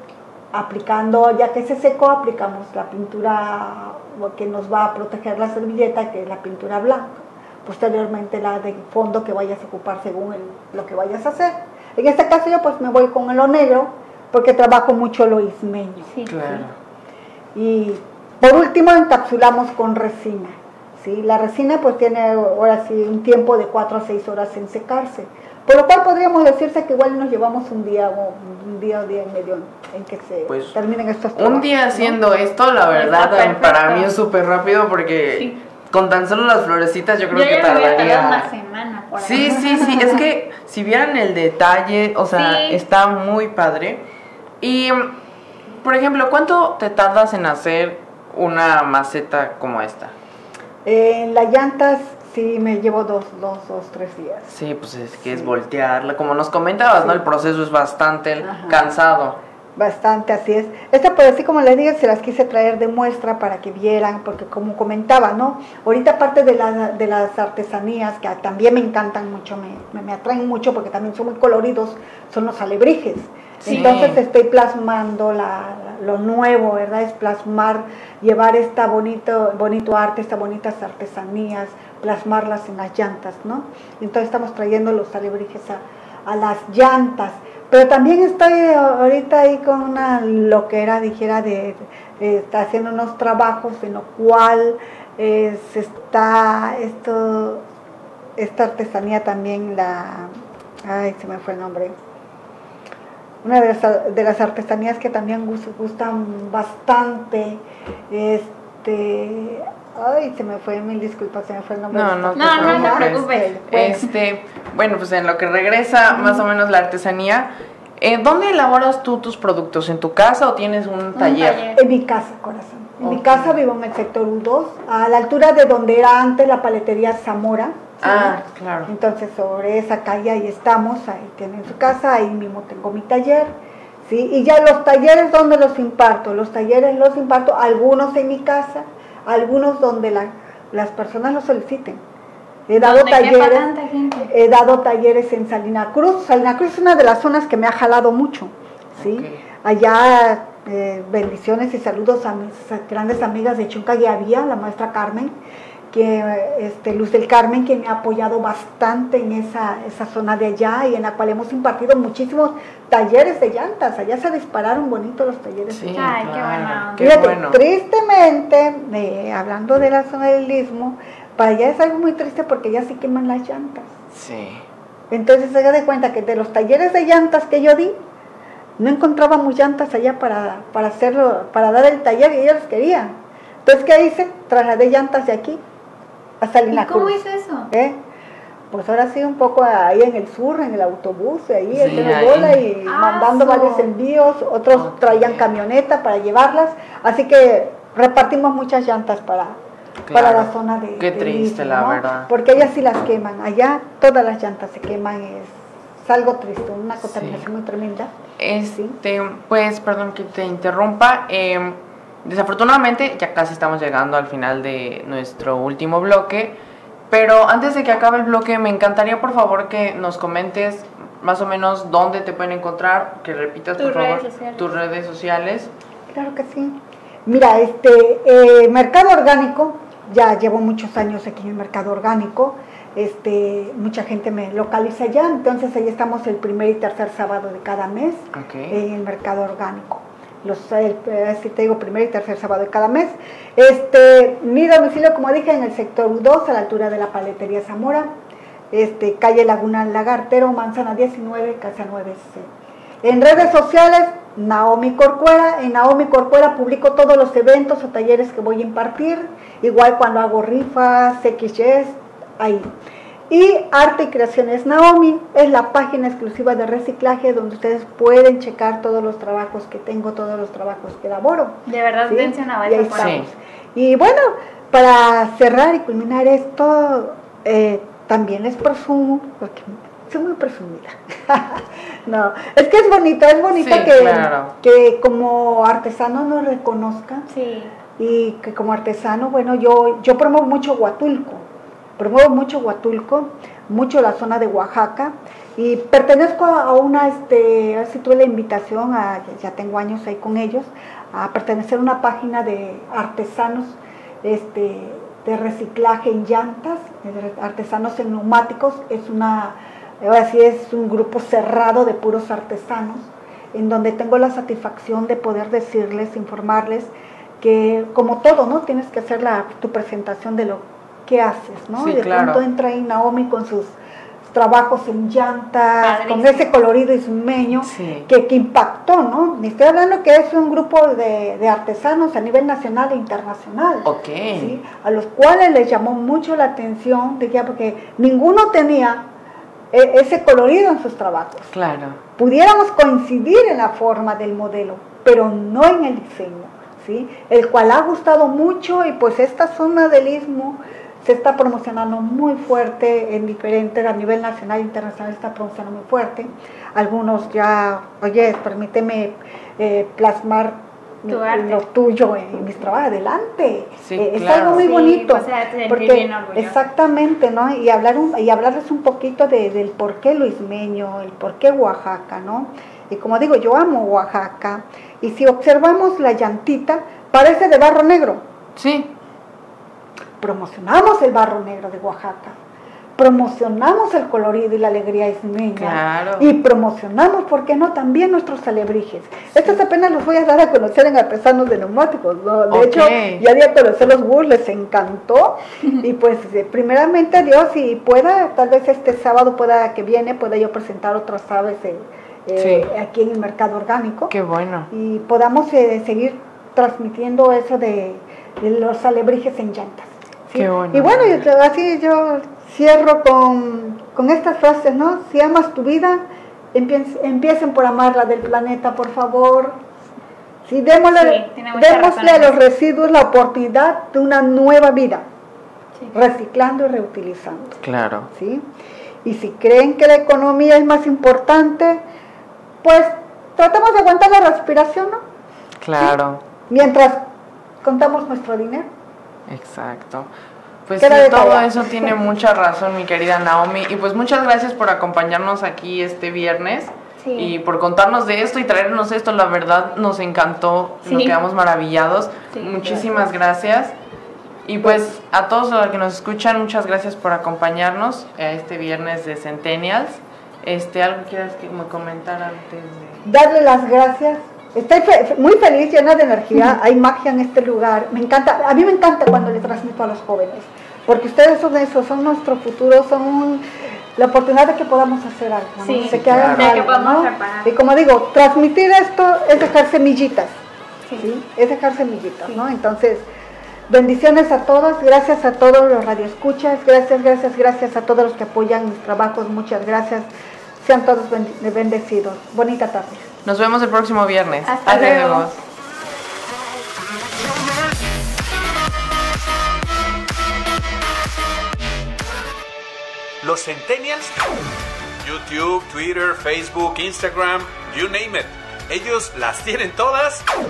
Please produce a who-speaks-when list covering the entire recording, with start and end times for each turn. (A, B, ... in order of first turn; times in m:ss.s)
0:00.5-0:16.1 A
0:16.1-0:16.6 B
0:16.3-0:16.7 C
0:17.5-0:32.2 A
0:30.5-0:30.7 C
0:31.3-0:38.5 C
0:32.9-0:34.1 B
0:37.3-0:40.1 B
0:39.2-0:44.0 C
0:42.3-0:42.8 B
0:44.6-0:45.2 C
0:45.8-0:50.1 C
0:50.8-0:54.5 A
0:54.5-0:59.4 C
0:55.2-0:55.5 A
0:58.4-0:58.8 A
0:59.8-1:37.6 A
1:13.6-1:14.2 C
1:13.6-1:14.0 B
1:38.4-1:40.3 A
1:40.8-1:42.0 A
1:43.4-1:54.0 A
1:51.9-2:01.7 C
1:52.3-1:53.5 B
2:01.2-2:01.8 B
2:01.7-2:22.0 A
2:03.0-2:03.6 C
2:08.0-2:08.9 C
2:22.7-2:23.7 A
2:22.8-2:24.3 B
2:24.2-2:35.3 A
2:29.0-2:29.4 C
2:35.9-2:46.3 A
2:45.7-2:47.6 C
2:45.9-2:47.2 B
2:47.0-2:53.9 A
2:54.1-2:54.6 C
2:55.1-2:58.0 A
2:58.8-3:05.6 A
3:06.4-3:08.0 A
3:06.7-3:07.7 B
3:08.7-3:19.6 A
3:11.7-3:12.7 C
3:12.8-3:13.9 B
3:14.7-3:15.5 C
3:20.0-3:22.3 C
3:20.1-3:28.2 A
3:27.0-3:27.4 C
3:28.4-3:36.6 C
3:37.1-3:45.7 C
3:43.8-3:44.7 B
3:46.1-4:08.1 A
3:58.3-3:58.8 C
4:08.7-4:12.5 A
4:13.0-4:22.7 A
4:23.3-4:47.3 A
4:31.7-4:33.3 B
4:33.0-4:33.2 C
4:43.6-4:44.5 C
4:47.3-4:47.7 B
4:48.0-4:51.5 A
4:52.0-5:39.0 A
5:21.8-5:22.4 C
5:25.8-5:26.5 B
5:27.6-5:28.1 C
5:33.8-5:34.6 C
5:39.7-5:41.5 A
5:41.5-5:42.0 C
5:42.2-6:18.2 A
6:01.1-6:01.6 B
6:03.8-6:04.7 C
6:04.5-6:06.6 B
6:18.6-6:18.9 C
6:20.2-6:22.4 A
6:23.0-6:44.1 A
6:25.6-6:26.3 C
6:32.5-6:33.2 C
6:42.4-6:42.7 C
6:44.1-6:44.7 C
6:44.7-6:56.0 A
6:50.3-6:51.2 C
6:56.5-6:59.6 A
7:00.4-7:05.0 A
7:00.9-7:02.4 B
7:05.9-7:08.5 A
7:07.6-7:08.1 C
7:09.0-7:11.8 A
7:12.6-7:15.0 A
7:15.6-7:16.2 C
7:15.8-7:17.0 A
7:17.6-7:18.7 A
7:19.3-7:20.1 C
7:20.6-7:33.7 C
7:20.8-7:22.0 A
7:27.0-7:27.3 B
7:30.8-7:31.2 B
7:32.6-7:33.1 A
7:34.4-7:43.0 C
7:34.6-7:34.9 A
7:43.0-7:53.4 A
7:54.0-8:00.4 A
7:55.6-7:57.5 B
7:55.9-7:56.6 C
8:01.0-8:03.0 A
8:03.7-8:10.1 A
8:10.6-8:13.1 A
8:13.2-8:15.4 C
8:14.4-8:15.3 B
8:23.2-8:24.1 D
8:25.0-8:30.2 D